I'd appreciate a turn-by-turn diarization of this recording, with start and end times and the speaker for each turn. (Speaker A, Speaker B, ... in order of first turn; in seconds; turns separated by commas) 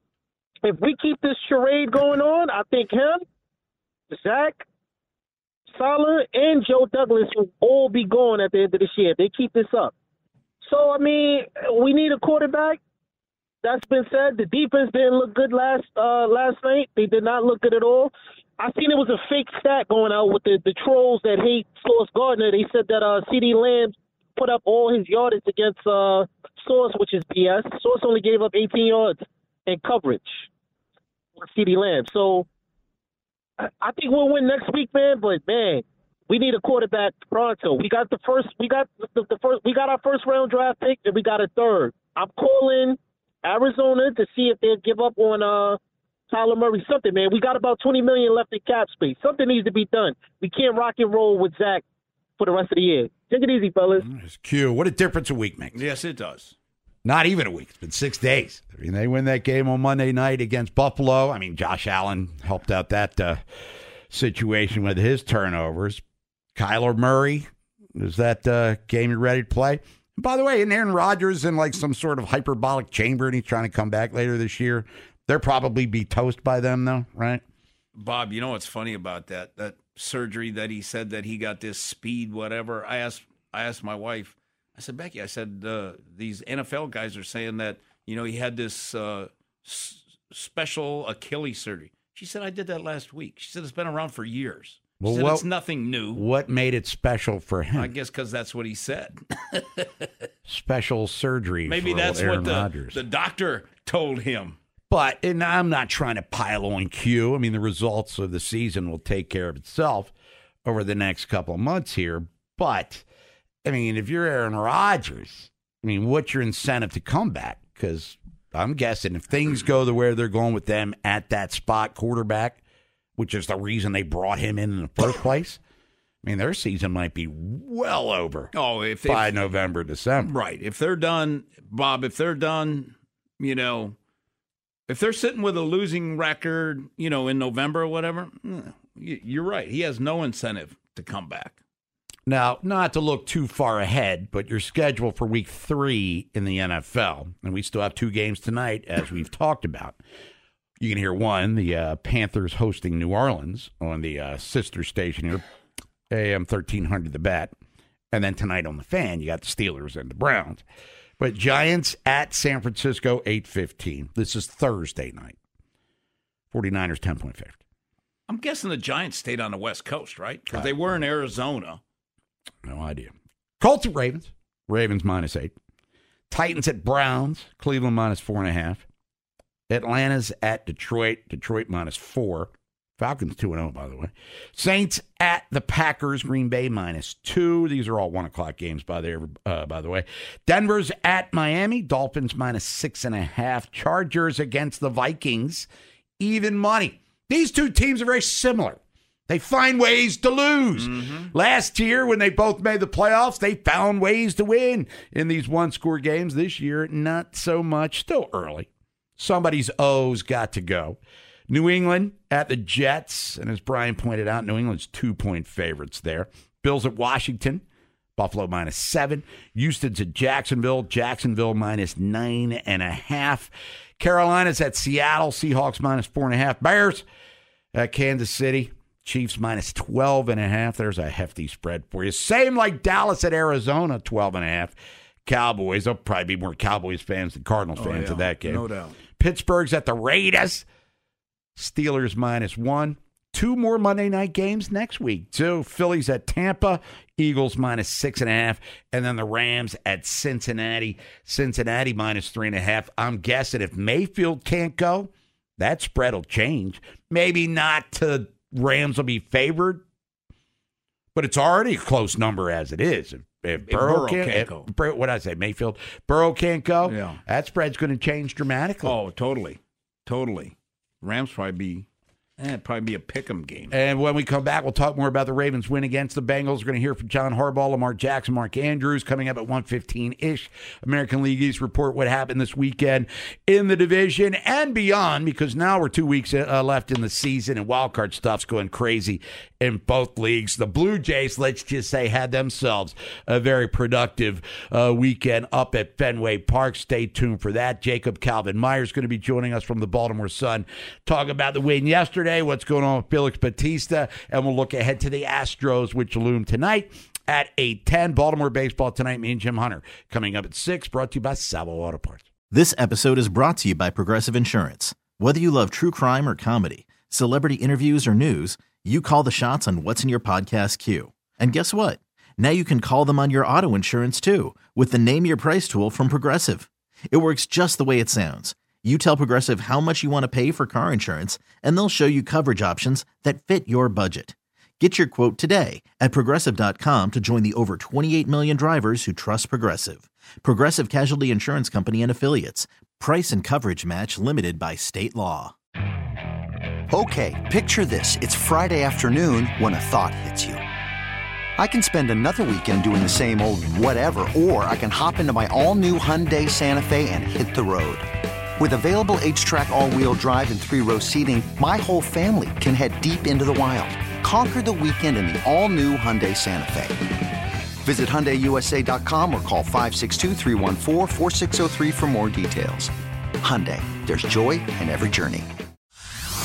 Speaker A: 0.6-3.2, Speaker A: 4.1-4.6, Speaker A: 5.7-9.9, Speaker A: 10.7-12.8, Speaker A: 13.6-30.5, Speaker A: 31.4-32.5, Speaker A: 33.6-45.8, Speaker A: 46.3-51.8, Speaker A: 52.4-54.1, Speaker B: 54.0-55.8, Speaker C: 55.7-56.5, Speaker B: 57.0-63.4, Speaker B: 64.1-66.0, Speaker B: 66.5-77.4, Speaker C: 78.0-96.2, Speaker B: 95.0-95.5, Speaker B: 96.1-97.9, Speaker C: 97.8-100.1, Speaker B: 100.5-103.0, Speaker C: 101.7-104.6, Speaker B: 104.9-110.1, Speaker B: 110.7-113.0, Speaker B: 113.6-122.6, Speaker B: 123.2-125.6, Speaker B: 126.2-128.5, Speaker C: 128.5-129.4, Speaker B: 129.1-130.3, Speaker C: 130.2-134.0, Speaker C: 134.9-141.6, Speaker B: 142.3-150.0, Speaker B: 150.8-155.4, Speaker B: 156.1-157.5, Speaker B: 158.1-160.6, Speaker B: 161.2-165.4, Speaker B: 166.5-167.6, Speaker C: 168.3-171.8, Speaker B: 172.6-175.5, Speaker B: 176.3-178.8, Speaker B: 179.7-217.6, Speaker C: 200.8-201.3, Speaker B: 218.2-227.0, Speaker B: 227.7-238.7, Speaker C: 237.8-239.0, Speaker B: 239.2-240.7, Speaker B: 241.6-259.8, Speaker B: 261.1-269.0, Speaker C: 263.7-264.7, Speaker C: 266.9-267.2, Speaker C: 268.8-271.9, Speaker C: 272.4-273.7, Speaker B: 273.7-312.3, Speaker D: 312.5-345.6, Speaker E: 346.9-350.6, Speaker E: 351.6-358.1, Speaker E: 358.6-367.0, Speaker E: 367.8-375.5